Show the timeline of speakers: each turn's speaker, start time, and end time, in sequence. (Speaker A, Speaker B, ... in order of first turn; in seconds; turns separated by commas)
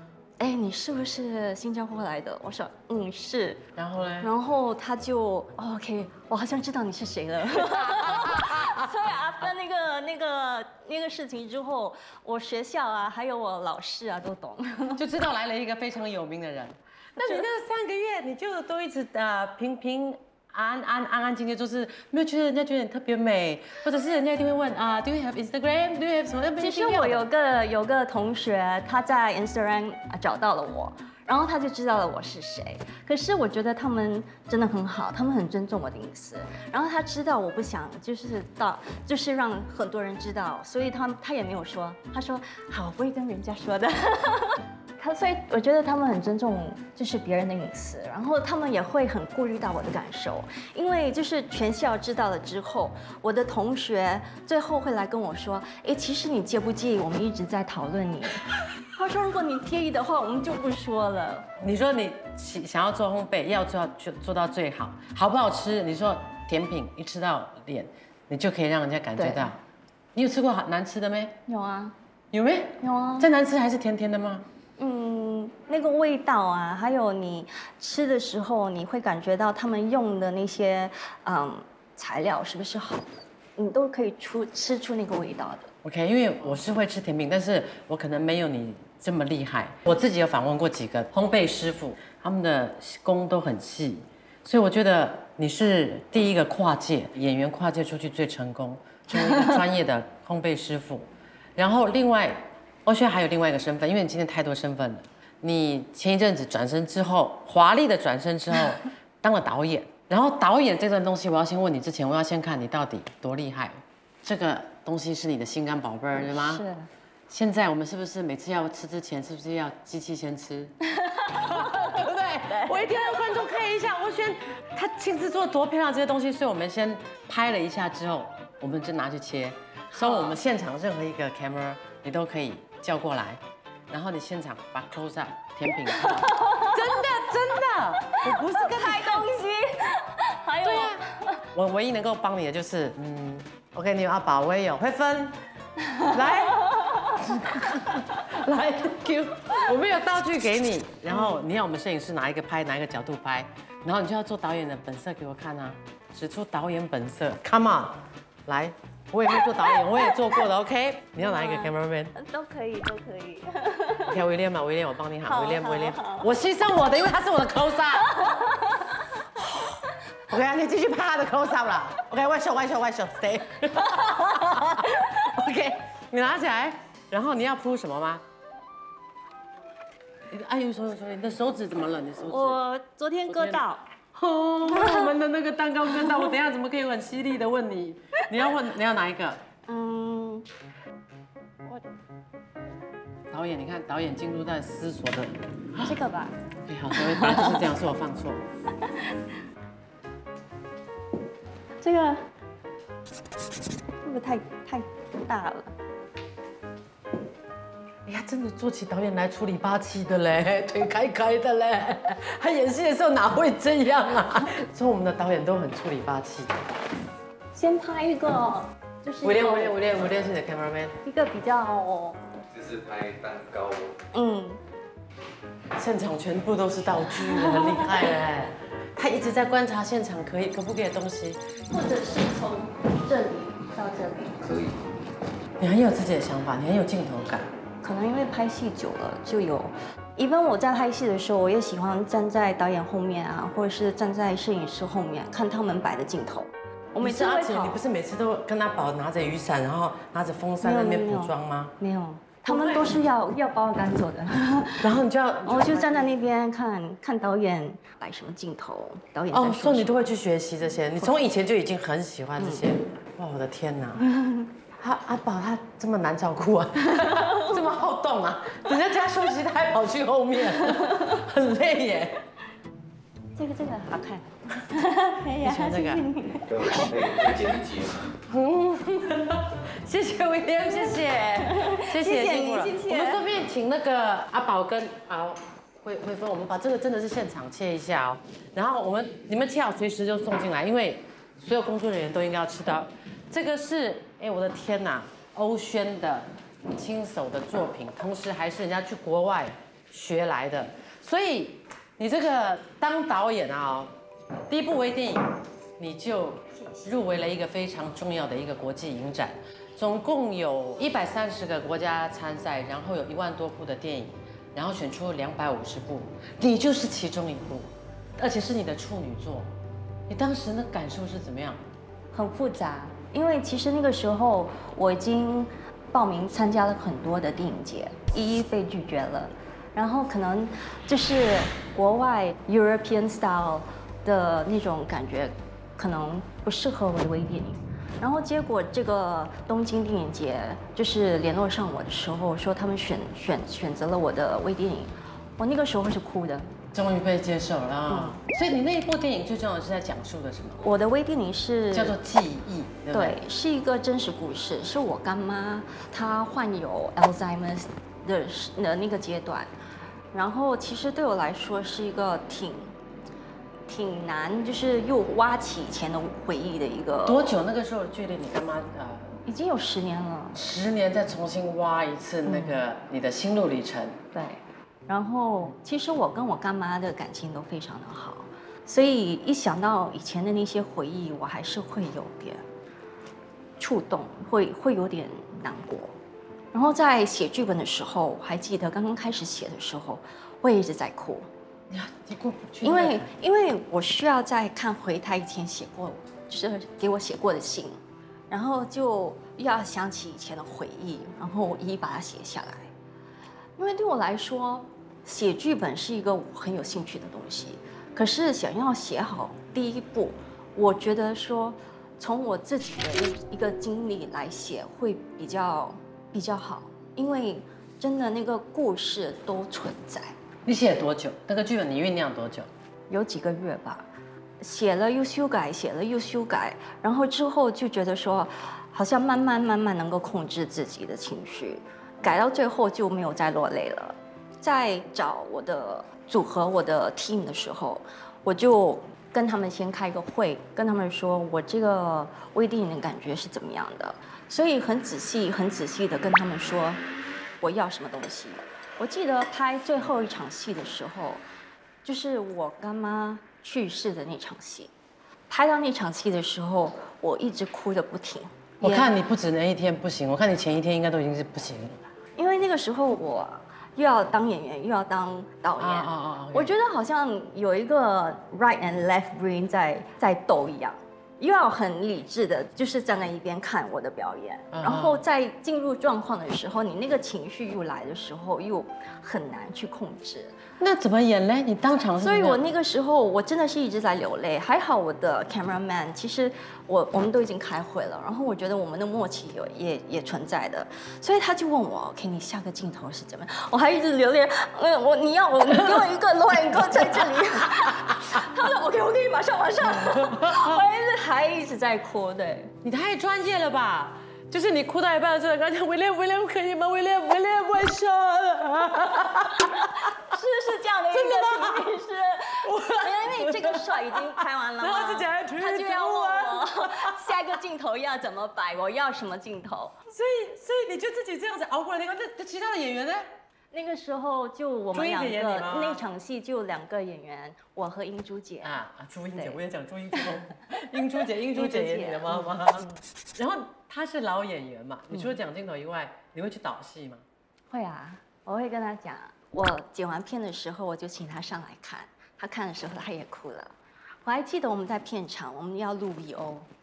Speaker A: 0.4-3.6, Speaker B: 3.8-4.3, Speaker A: 4.2-15.0, Speaker B: 7.5-8.9, Speaker B: 15.0-27.2, Speaker A: 17.2-17.4, Speaker A: 26.6-61.5, Speaker B: 61.6-69.6, Speaker A: 69.2-69.5, Speaker B: 70.1-71.4, Speaker A: 71.5-71.9, Speaker B: 72.3-74.5, Speaker A: 72.8-73.3, Speaker A: 74.8-85.7, Speaker B: 85.8-116.6, Speaker A: 99.1-99.6, Speaker A: 116.1-116.9, Speaker B: 117.3-120.7, Speaker A: 120.9-121.9, Speaker B: 121.3-139.3, Speaker A: 122.5-123.1, Speaker A: 129.9-130.4, Speaker A: 135.9-137.0, Speaker A: 138.0-141.4, Speaker B: 140.6-141.0, Speaker B: 141.5-145.4, Speaker A: 145.8-147.2, Speaker B: 146.1-162.1, Speaker A: 151.1-151.4, Speaker A: 159.4-160.4, Speaker A: 161.2-164.2, Speaker B: 164.0-168.3, Speaker A: 165.2-166.3, Speaker A: 167.9-169.1, Speaker B: 169.3-178.2, Speaker A: 173.8-175.2, Speaker B: 180.3-182.6, Speaker A: 182.3-183.8, Speaker B: 183.3-189.4, Speaker A: 184.7-185.1, Speaker A: 189.7-190.5, Speaker B: 193.3-195.9, Speaker A: 195.8-196.3, Speaker B: 196.7-198.4, Speaker A: 196.9-197.6, Speaker A: 198.8-199.2, Speaker A: 201.8-202.2, Speaker A: 204.0-205.7, Speaker B: 208.1-216.6, Speaker A: 217.5-220.0, Speaker B: 219.2-221.0, Speaker A: 221.0-222.2, Speaker C: 222.5-224.0, Speaker A: 224.1-224.6, Speaker B: 225.8-231.4, Speaker A: 227.4-228.0, Speaker A: 231.7-234.4, Speaker C: 234.4-234.7, Speaker B: 235.6-237.5, Speaker A: 237.8-247.8, Speaker B: 247.0-251.7, Speaker A: 250.6-254.9, Speaker B: 252.5-252.9, Speaker B: 254.8-256.1, Speaker A: 255.4-260.0, Speaker B: 259.3-264.0, Speaker A: 262.4-262.7, Speaker A: 264.0-264.5, Speaker B: 264.8-272.2, Speaker A: 267.0-267.5, Speaker A: 273.4-277.5, Speaker B: 275.4-276.1, Speaker C: 276.5-278.1, Speaker B: 278.3-303.9, Speaker A: 281.4-283.2, Speaker B: 304.5-305.2, Speaker B: 305.8-319.5, Speaker B: 320.1-321.6, Speaker A: 322.1-346.5, Speaker B: 346.7-350.6, Speaker A: 347.9-348.2, Speaker A: 350.6-352.0, Speaker B: 351.7-353.2, Speaker A: 352.9-359.5, Speaker A: 360.1-362.7, Speaker A: 363.7-367.3, Speaker B: 367.0-369.2, Speaker A: 369.2-370.4, Speaker B: 370.3-374.0, Speaker A: 372.2-372.6, Speaker A: 374.1-382.4, Speaker A: 383.6-385.9, Speaker A: 386.5-391.3, Speaker B: 391.7-393.1, Speaker A: 392.6-397.8, Speaker A: 398.3-402.7, Speaker A: 403.6-420.1, Speaker B: 420.4-422.5, Speaker A: 422.9-423.9, Speaker A: 424.4-446.8, Speaker A: 447.4-451.2, Speaker A: 451.8-454.7, Speaker A: 455.3-458.9, Speaker B: 458.6-461.8, Speaker A: 462.2-480.4, Speaker B: 465.6-466.5, Speaker B: 474.5-475.0, Speaker B: 480.6-482.4, Speaker A: 482.0-502.5, Speaker B: 495.5-495.9, Speaker B: 496.4-498.3, Speaker B: 499.6-500.6, Speaker B: 502.6-510.1, Speaker A: 509.3-519.8, Speaker B: 510.9-517.2, Speaker B: 519.9-523.0, Speaker A: 523.5-528.6, Speaker B: 524.7-525.8, Speaker B: 528.4-537.0, Speaker A: 529.1-529.4, Speaker A: 531.3-532.8, Speaker A: 534.9-535.1, Speaker A: 537.5-546.5